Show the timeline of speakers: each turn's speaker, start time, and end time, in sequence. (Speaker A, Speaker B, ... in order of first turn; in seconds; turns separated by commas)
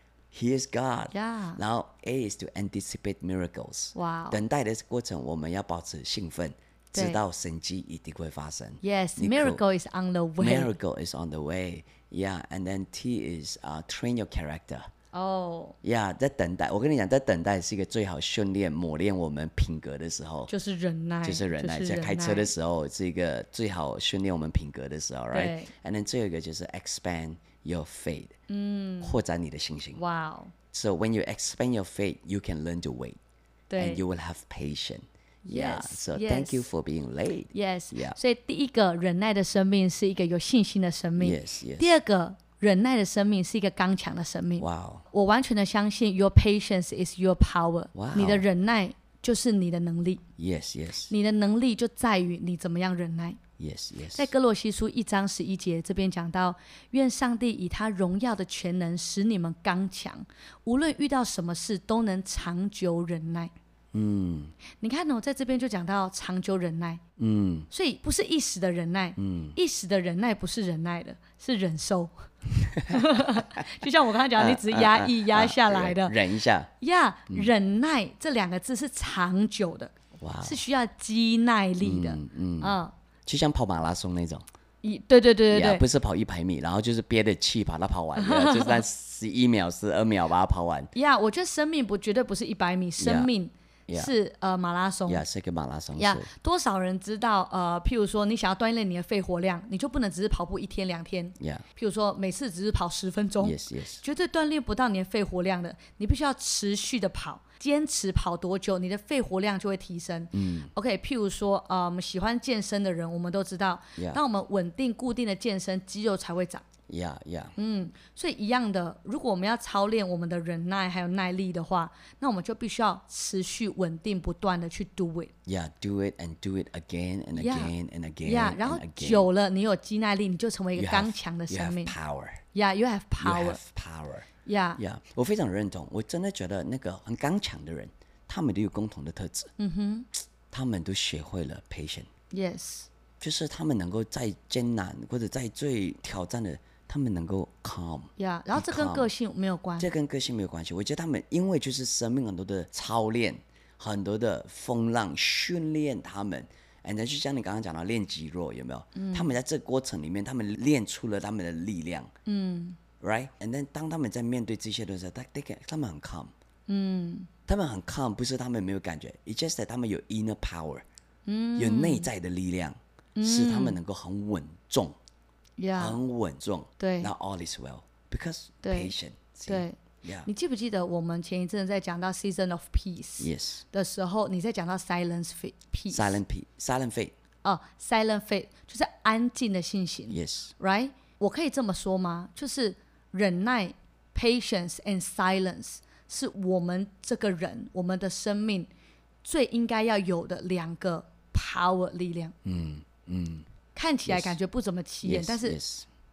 Speaker A: 0.3-9.6, Speaker B: 1.1-1.6, Speaker B: 3.9-4.4, Speaker B: 6.9-7.2, Speaker B: 8.8-10.7, Speaker A: 10.4-14.9, Speaker B: 15.1-15.8, Speaker A: 15.8-20.5, Speaker B: 20.5-22.5, Speaker A: 21.2-28.4, Speaker B: 25.3-25.7, Speaker B: 28.5-29.2, Speaker A: 29.0-30.0, Speaker B: 29.9-30.5, Speaker A: 30.7-33.2, Speaker B: 33.7-34.0, Speaker A: 33.8-38.2, Speaker B: 35.5-36.7, Speaker B: 37.5-50.2, Speaker A: 41.2-42.0, Speaker A: 44.6-45.1, Speaker A: 47.9-48.5, Speaker A: 50.4-51.1, Speaker B: 51.1-53.4, Speaker A: 53.6-54.3, Speaker B: 54.1-63.5, Speaker A: 63.9-64.5, Speaker B: 64.8-67.0, Speaker A: 67.2-67.7, Speaker B: 67.7-72.2, Speaker A: 69.2-69.6, Speaker A: 72.5-76.7, Speaker B: 72.9-76.1, Speaker B: 76.8-79.9, Speaker A: 80.2-80.6, Speaker B: 80.4-82.9, Speaker A: 81.8-84.4, Speaker B: 84.8-85.8, Speaker A: 85.5-90.9, Speaker B: 88.2-88.8, Speaker B: 90.9-95.2, Speaker A: 93.0-93.3, Speaker A: 93.9-94.1, Speaker A: 95.1-96.3, Speaker B: 95.9-116.6, Speaker A: 101.4-101.6, Speaker A: 103.4-104.0, Speaker A: 110.3-110.7, Speaker A: 114.0-114.2, Speaker A: 116.9-117.5, Speaker B: 117.6-125.3, Speaker A: 125.5-129.3, Speaker B: 127.3-127.7, Speaker B: 128.2-131.9, Speaker A: 130.7-132.4, Speaker B: 132.5-133.6, Speaker A: 133.2-139.5, Speaker B: 134.4-134.8, Speaker B: 139.6-140.1, Speaker A: 140.5-142.1, Speaker B: 142.3-142.9, Speaker A: 143.2-149.1, Speaker B: 148.2-149.9, Speaker A: 149.8-162.1, Speaker B: 158.9-159.3, Speaker B: 162.2-162.8, Speaker A: 163.0-166.3, Speaker B: 166.7-167.3, Speaker A: 167.5-170.8, Speaker B: 171.2-172.1, Speaker A: 171.6-175.0, Speaker B: 173.2-173.8, Speaker B: 175.6-176.0, Speaker A: 175.8-180.3, Speaker B: 176.8-177.1, Speaker B: 178.6-178.9, Speaker B: 179.5-186.2, Speaker A: 183.2-183.6, Speaker A: 185.9-187.1, Speaker B: 187.4-198.7, Speaker A: 190.1-190.5, Speaker B: 199.2-202.3, Speaker A: 202.4-203.5, Speaker B: 203.7-205.6, Speaker A: 204.0-204.3, Speaker A: 205.0-205.9